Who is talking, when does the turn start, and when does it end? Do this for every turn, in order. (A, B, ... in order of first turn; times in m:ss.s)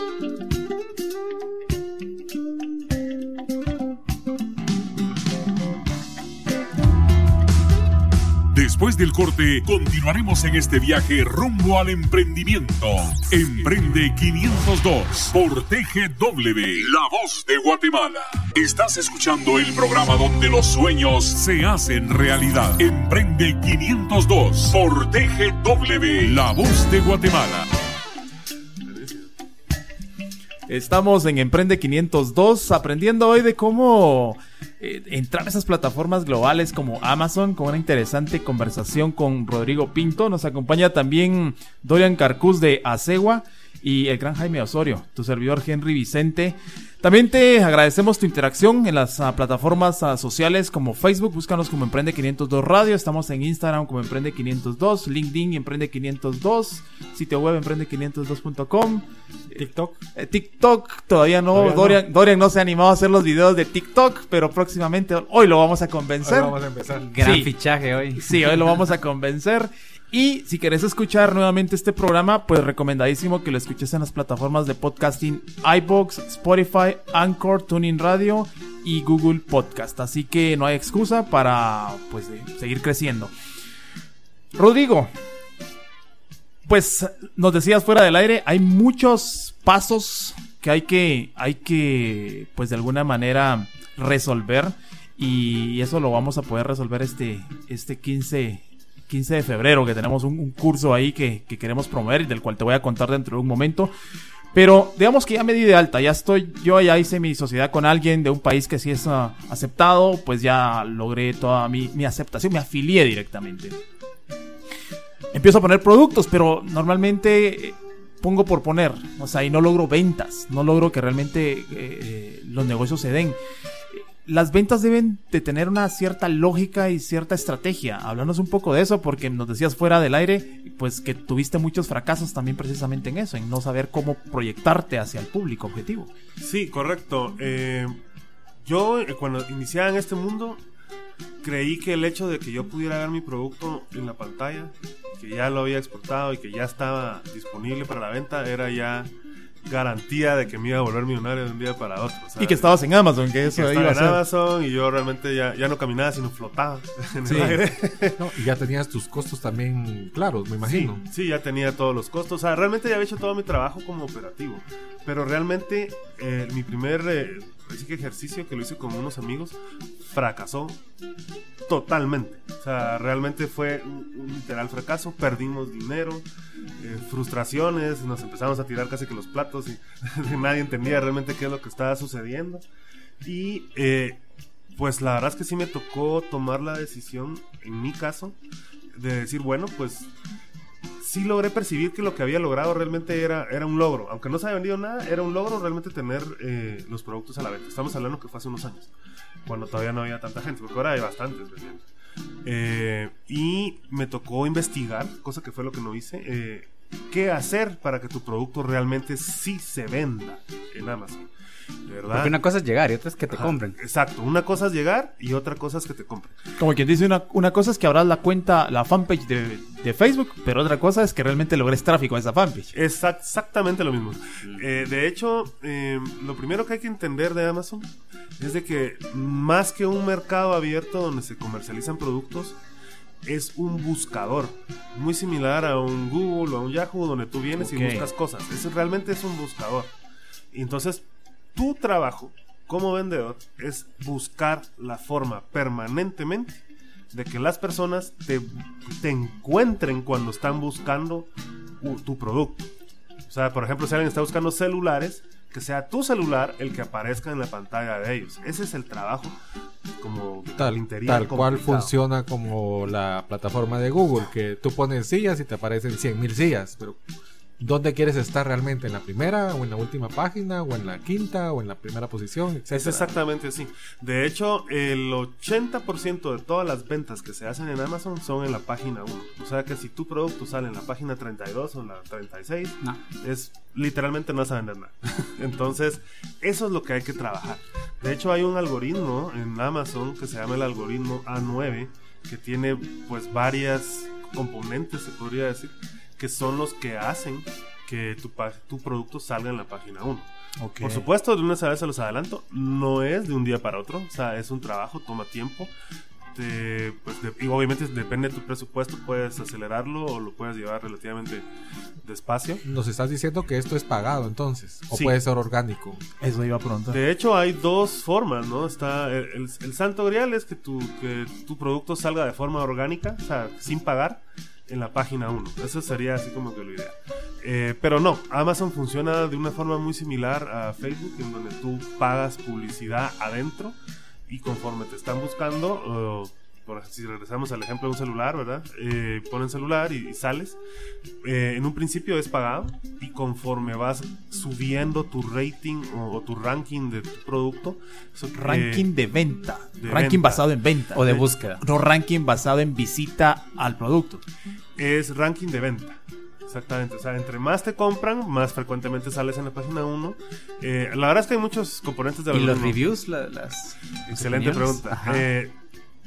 0:08.5-0:27.7 A
0:28.8-0:29.3 B
0:30.7-0:59.0 C
0:59.5-1:00.0 D
1:00.1-1:06.5 C
1:01.6-1:01.9 B
1:06.2-1:07.1 D
1:07.1-1:08.2 E
1:07.2-1:07.5 C
1:08.2-1:23.3 C
1:24.5-1:25.1 C
1:26.6-1:43.9 C
1:44.5-1:53.8 C
1:55.3-2:03.4 C
2:04.2-2:16.1 C
2:16.4-2:18.0 B
2:18.6-2:20.6 B
2:21.4-2:29.1 B
2:29.6-2:32.8 B
2:32.4-2:34.2 C
2:33.4-2:38.3 B
2:37.2-2:37.6 C
2:38.2-2:41.0 D
2:40.6-2:50.8 B
2:51.6-2:56.2 B
2:56.8-3:02.6 B
3:03.2-3:04.2 B
3:04.7-3:08.4 B
3:09.0-3:10.1 B
3:11.0-3:18.9 B
3:19.4-3:21.8 B
3:22.4-3:31.2 B
3:31.8-3:32.3 B
3:32.1-3:33.8 E
3:33.3-3:36.4 B
3:36.6-3:42.7 C
3:42.7-3:52.6 B
3:53.2-3:59.9 B
3:57.6-3:58.1 C
4:00.5-4:06.6 B
4:07.1-4:11.3 B
4:11.8-4:12.7 B
4:13.3-4:19.4 B
4:20.0-4:21.9 B
4:20.6-4:27.0 D
4:27.6-4:33.1 D
4:32.7-5:00.3 B
5:00.6-5:01.1 C
5:00.8-5:05.7 B
5:06.3-5:11.5 B
5:12.0-5:12.6 B
5:12.6-5:16.0 D
5:16.2-5:17.0 C
5:16.9-5:40.6 B
5:41.2-5:48.9 B
5:48.3-5:54.2 C
5:49.8-5:50.4 B
5:50.9-5:51.6 E
5:54.8-6:02.8 B
6:02.3-6:05.3 E
6:04.1-6:05.6 B